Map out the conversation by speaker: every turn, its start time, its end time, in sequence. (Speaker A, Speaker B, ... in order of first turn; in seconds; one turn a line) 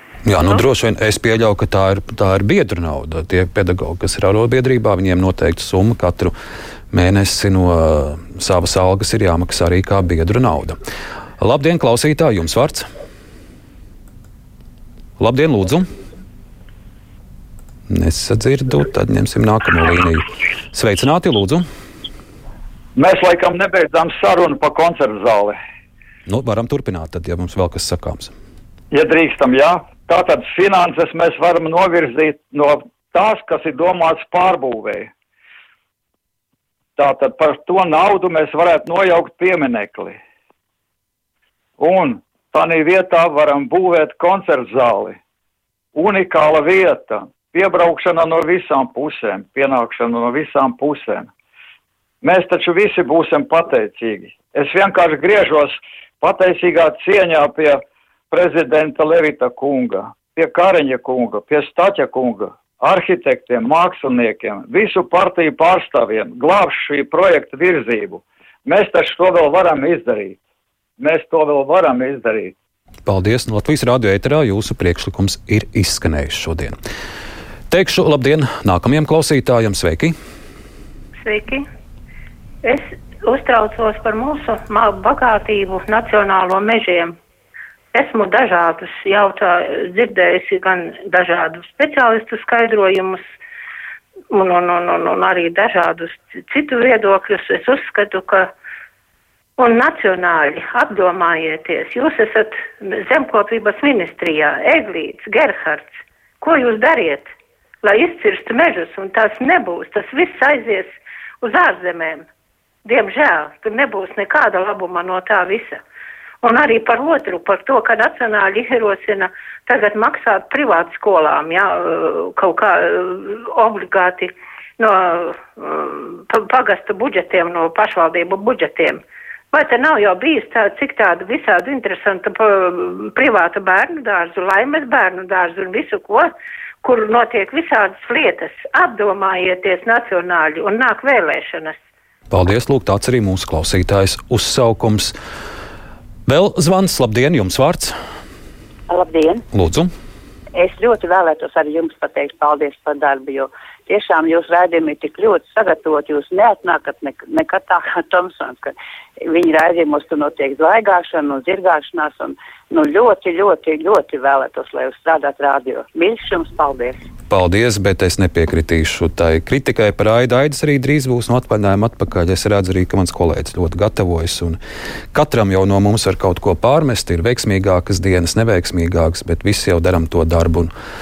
Speaker A: 0.3-6.3
Speaker A: 6.9-10.8
Speaker A: 11.4-12.8
Speaker A: 15.2-15.9
Speaker A: 17.9-21.6
Speaker B: 23.0-25.6
Speaker A: 26.3-28.3
Speaker B: 28.9-35.1
Speaker B: 37.0-40.2
Speaker B: 41.8-45.2
Speaker B: 46.0-51.3
Speaker B: 52.2-70.4
Speaker B: 71.0-72.5
Speaker A: 73.0-76.8
Speaker A: 77.7-80.1
Speaker C: 81.2-81.6
Speaker C: 82.6-87.1
Speaker C: 87.9-93.2
Speaker C: 94.3-98.5
Speaker C: 99.6-107.3
Speaker C: 107.8-112.2
Speaker C: 112.8-115.8
Speaker C: 116.4-129.0
Speaker C: 129.5-136.3
Speaker C: 136.8-141.8
Speaker A: 142.3-145.2
Speaker A: 146.3-147.9
Speaker D: 148.9-149.4
Speaker A: 149.5-149.9
Speaker D: 150.6-167.0
Speaker A: 167.3-174.6
Speaker A: 175.1-180.7